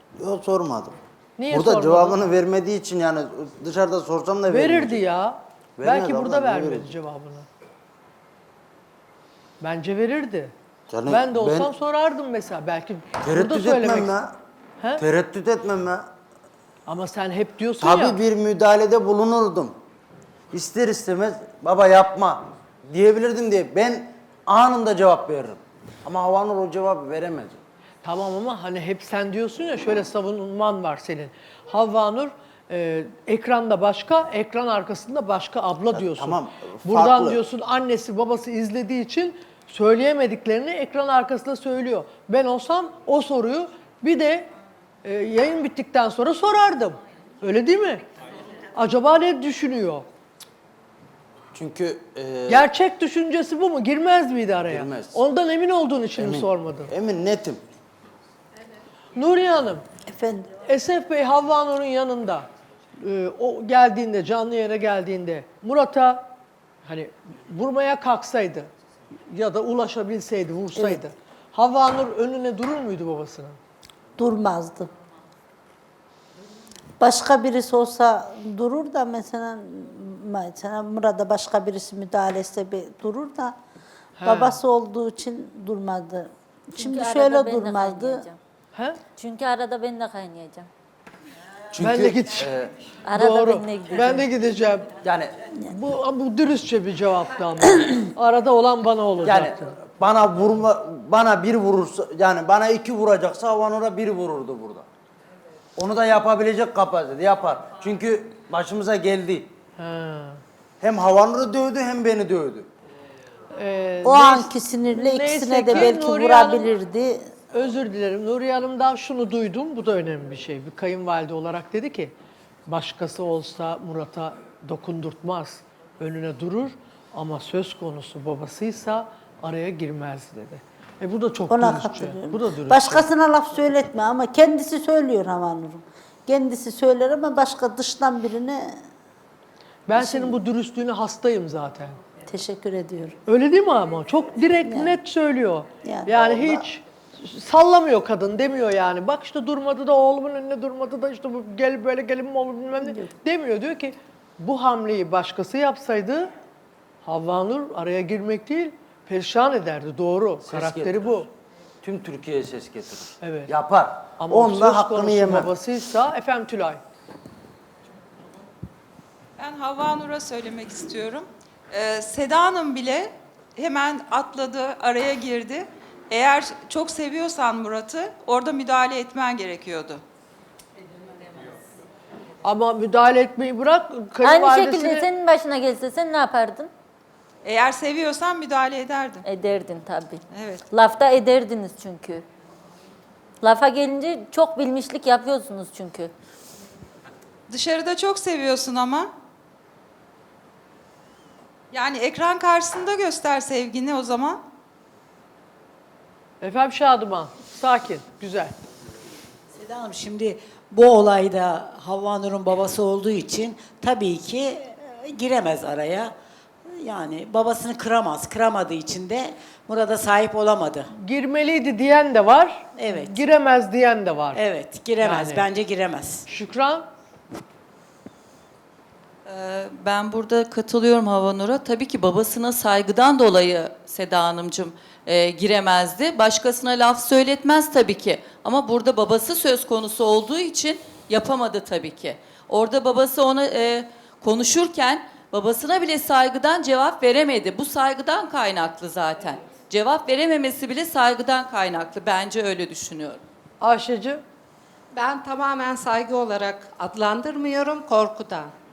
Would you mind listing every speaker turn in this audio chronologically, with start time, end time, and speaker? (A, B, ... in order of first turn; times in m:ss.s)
0:00.2-0:01.0 A
0:01.4-0:02.2 B
0:01.5-0:05.0 A
0:04.5-0:07.5 B
0:05.8-0:06.9 A
0:09.6-0:10.5 B
0:10.9-0:11.7 A
0:11.1-0:14.2 B
0:13.2-0:14.3 A
0:15.0-0:16.0 A
0:16.8-0:18.2 B
0:17.8-0:19.7 A
0:20.5-0:27.6 A
0:28.0-0:44.5 B
0:35.9-0:37.4 A
0:45.0-0:48.0 B
0:48.7-0:50.1 B
0:51.5-0:52.6 A
0:52.5-0:56.9 B
0:54.7-0:55.1 A
0:56.2-0:57.6 A
0:59.1-0:59.8 B
1:00.1-1:00.5 C
1:00.6-1:02.5 B
1:03.0-1:06.3 B
1:06.8-1:08.7 B
1:09.3-1:13.6 B
1:10.8-1:11.0 C
1:14.2-1:14.9 C
1:17.0-1:23.5 C
1:24.2-1:24.6 B
1:24.2-1:28.3 C
1:26.8-1:28.4 D
1:28.7-1:29.0 B
1:29.1-1:30.7 D
1:31.7-1:32.7 A
1:31.8-1:32.5 B
1:33.0-1:34.2 D
1:33.1-1:34.9 B
1:35.0-1:35.3 A
1:35.6-1:39.7 B
1:39.2-1:44.8 A
1:45.8-1:49.5 A
1:49.8-1:50.4 B
1:50.8-1:52.7 A
1:53.5-1:56.7 B
1:54.0-1:57.3 C
1:57.5-2:02.1 B
2:02.7-2:13.1 B
2:11.5-2:18.8 C
2:19.9-2:22.0 B
2:19.9-2:20.4 C
2:22.3-2:23.2 C
2:23.3-2:36.3 B
2:24.6-2:25.0 C
2:25.8-2:26.6 C
2:37.0-2:41.3 B
2:40.4-2:41.0 A
2:41.8-2:45.5 A
2:43.2-2:43.5 B
2:44.2-2:46.8 B
2:49.4-3:00.0 E
3:02.4-3:05.1 B
3:04.2-3:06.7 D
3:07.4-3:09.2 E
3:09.2-3:12.2 D
3:10.3-3:10.6 E
3:13.4-3:16.1 D
3:17.5-3:19.1 E
3:21.7-3:24.4 E
3:26.4-3:28.6 B
3:29.5-3:36.1 F
3:36.7-3:40.9 F
3:40.9-3:44.4 B
3:42.8-3:43.2 F
3:44.3-3:46.2 F
3:45.0-3:45.4 B
3:46.2-3:46.9 B
3:49.2-4:13.2 G
4:13.6-4:14.2 B
4:14.9-4:18.5 H